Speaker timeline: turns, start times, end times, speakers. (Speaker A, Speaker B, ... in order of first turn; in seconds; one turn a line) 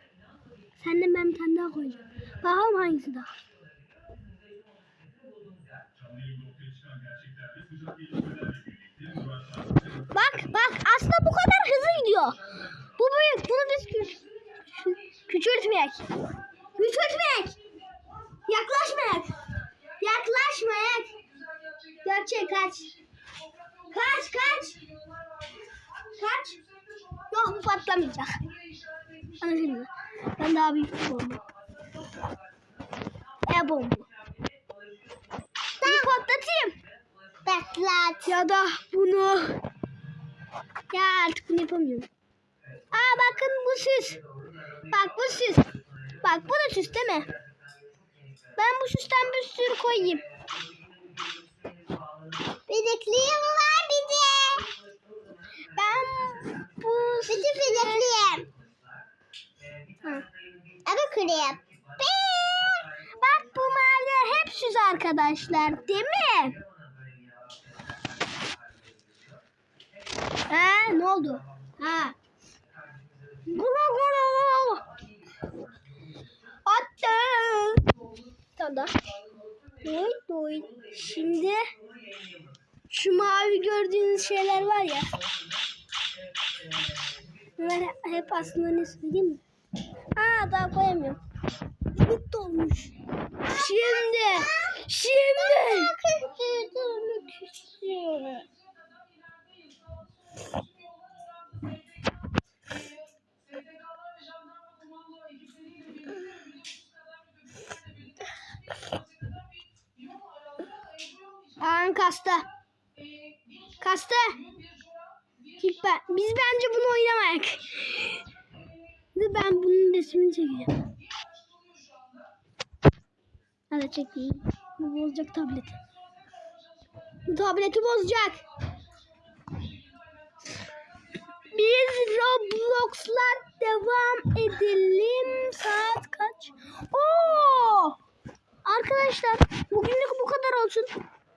Speaker A: 0.8-3.3
Speaker A: 10.1-12.4
Speaker A: 13.0-16.1
Speaker A: 16.8-17.6
Speaker A: 18.5-19.3
Speaker A: 20.0-21.1
Speaker A: 22.0-22.9
Speaker A: 23.9-24.8
Speaker A: 26.2-26.6
Speaker A: 27.3-28.3
Speaker A: 29.4-31.4
Speaker A: 33.5-34.1
Speaker B: 35.8-36.1
Speaker A: 35.8-36.8
Speaker B: 37.4-38.3
Speaker A: 38.2-39.6
Speaker A: 40.9-42.1
Speaker A: 42.9-44.2
Speaker A: 44.9-45.7
Speaker A: 46.2-47.3
Speaker A: 48.6-50.2
Speaker B: 52.7-54.7
Speaker A: 55.7-58.1
Speaker B: 57.3-58.5
Speaker B: 60.8-62.9
Speaker A: 63.2-66.6
Speaker A: 70.5-72.1
Speaker A: 73.5-74.8
Speaker A: 76.7-77.8
Speaker A: 78.6-78.9
Speaker A: 79.8-81.7
Speaker A: 82.9-85.1
Speaker A: 87.6-89.4
Speaker A: 90.2-91.2
Speaker A: 91.9-92.9
Speaker B: 93.4-94.8
Speaker A: 93.5-95.9
Speaker B: 95.3-98.4
Speaker A: 111.6-112.5
Speaker A: 113.8-114.4
Speaker A: 115.6-118.2
Speaker A: 119.1-120.7
Speaker A: 123.7-125.8
Speaker A: 127.2-128.4
Speaker A: 131.5-137.9
Speaker A: 138.6-140.9